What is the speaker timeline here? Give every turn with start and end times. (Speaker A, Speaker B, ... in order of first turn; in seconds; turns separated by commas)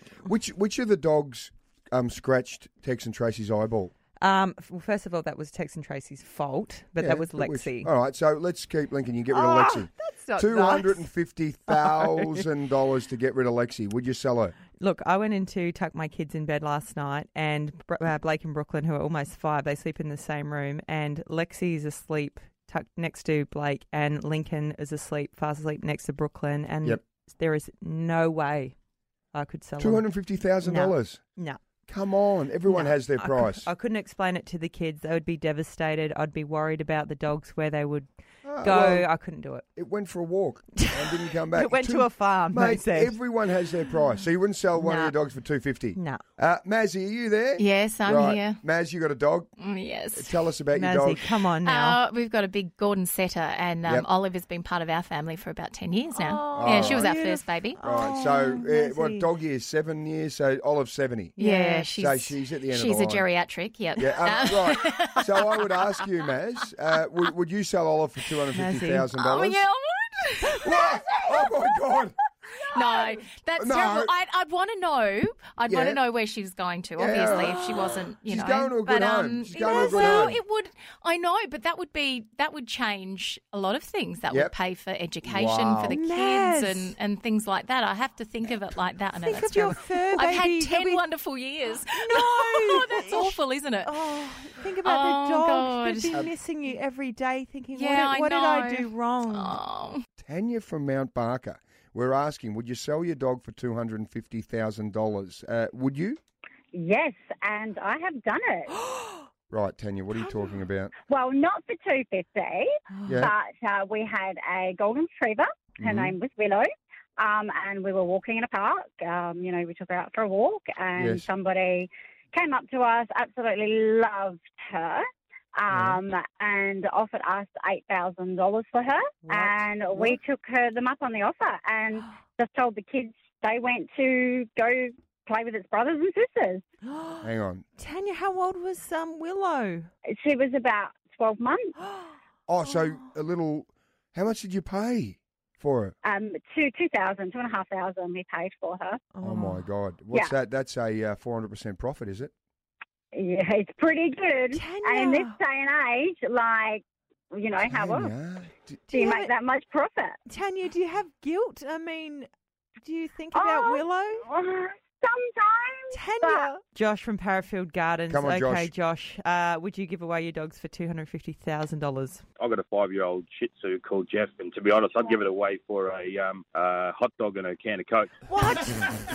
Speaker A: 0.2-3.9, Speaker B: 4.2-7.9, Speaker A: 7.0-14.6, Speaker B: 9.3-11.0, Speaker B: 11.7-12.4, Speaker B: 14.8-28.8, Speaker B: 29.3-30.0, Speaker A: 29.8-31.2, Speaker B: 30.6-31.6, Speaker A: 31.9-33.7, Speaker B: 32.7-39.7, Speaker A: 38.4-39.1, Speaker A: 39.8-49.5, Speaker B: 40.8-43.2, Speaker B: 44.8-45.1, Speaker B: 46.0-46.2, Speaker C: 47.6-48.6, Speaker C: 49.6-50.5, Speaker A: 50.1-51.2, Speaker B: 50.7-52.0, Speaker C: 51.6-57.8, Speaker B: 56.1-59.3, Speaker A: 56.5-57.1, Speaker A: 57.8-61.4, Speaker B: 61.4-61.9, Speaker C: 61.4-65.9, Speaker A: 62.0-63.3, Speaker A: 64.0-69.7, Speaker B: 68.5-69.1, Speaker C: 69.1-71.0, Speaker A: 70.6-72.2, Speaker C: 72.7-96.2, Speaker A: 73.6-74.1, Speaker A: 75.7-76.0, Speaker A: 77.0-80.4, Speaker B: 79.8-80.1, Speaker A: 85.2-86.0, Speaker B: 85.9-87.0, Speaker B: 89.1-91.0, Speaker B: 92.0-99.6, Speaker C: 97.7-100.0, Speaker A: 100.2-106.2, Speaker D: 106.7-108.7, Speaker B: 108.8-109.2, Speaker A: 109.5-110.9, Speaker B: 110.2-110.5, Speaker D: 111.1-116.7, Speaker B: 113.0-113.2, Speaker A: 113.1-113.3, Speaker A: 115.8-116.2, Speaker D: 117.2-125.0, Speaker A: 121.0-121.3, Speaker D: 125.6-136.6, Speaker A: 125.7-126.0, Speaker B: 129.2-129.6, Speaker B: 136.9-137.2, Speaker A: 137.2-137.7, Speaker B: 137.8-139.9, Speaker D: 140.2-141.8, Speaker A: 142.5-145.9, Speaker D: 146.0-149.0, Speaker B: 149.1-149.7, Speaker A: 149.2-152.3, Speaker D: 153.1-158.1, Speaker B: 154.5-155.4, Speaker A: 157.7-158.8, Speaker B: 158.9-159.3, Speaker D: 158.9-160.2, Speaker B: 160.3-162.3, Speaker B: 162.8-164.3, Speaker D: 163.3-166.5, Speaker B: 165.9-172.2, Speaker A: 168.1-168.7, Speaker E: 172.4-178.2, Speaker B: 178.3-178.8